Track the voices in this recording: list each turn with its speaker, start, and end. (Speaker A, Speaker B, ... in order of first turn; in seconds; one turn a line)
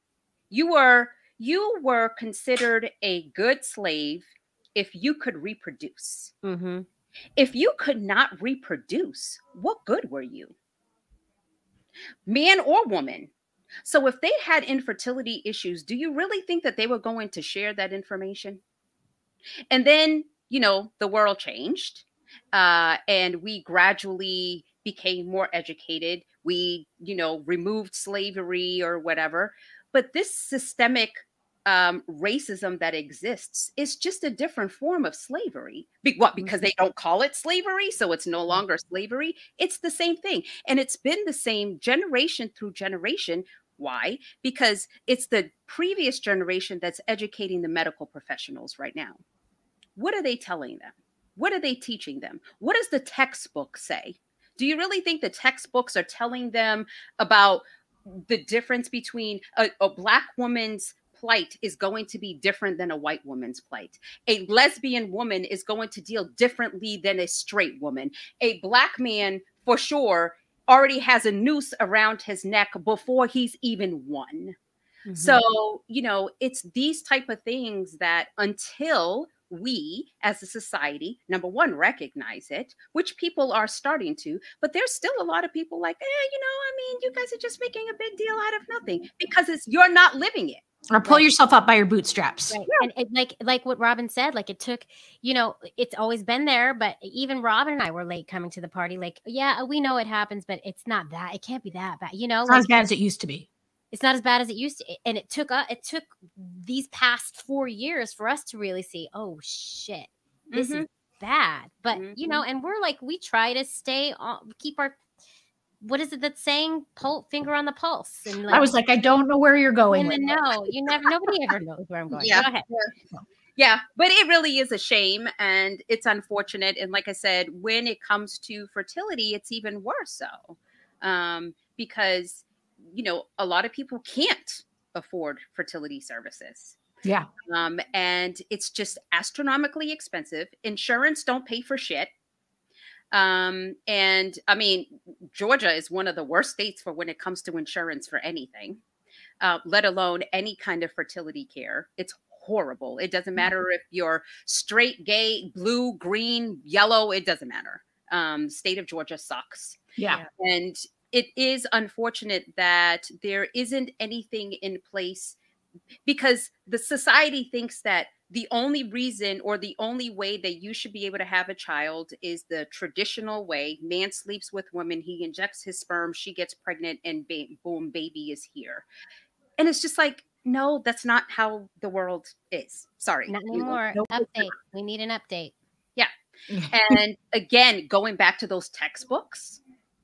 Speaker A: 0.5-6.3
Speaker B: 6.4-6.9
Speaker A: 7.4-10.5
Speaker A: 12.3-13.3
Speaker A: 13.8-18.6
Speaker A: 19.7-49.2
Speaker A: 50.0-74.6
Speaker B: 75.1-75.4
Speaker A: 75.2-90.6
Speaker C: 90.9-92.9
Speaker B: 92.5-102.8
Speaker C: 102.5-103.5
Speaker B: 103.9-115.0
Speaker A: 110.5-110.8
Speaker A: 111.9-112.4
Speaker B: 115.8-118.7
Speaker C: 118.5-120.4
Speaker B: 119.9-122.7
Speaker A: 122.1-122.9
Speaker A: 123.6-136.8
Speaker A: 137.5-142.1
Speaker A: 143.1-148.8
Speaker A: 149.4-165.4
Speaker A: 166.1-178.9
Speaker A: 179.6-183.8
Speaker B: 183.3-185.5
Speaker C: 183.9-184.3
Speaker C: 186.5-187.0
Speaker A: 186.7-189.6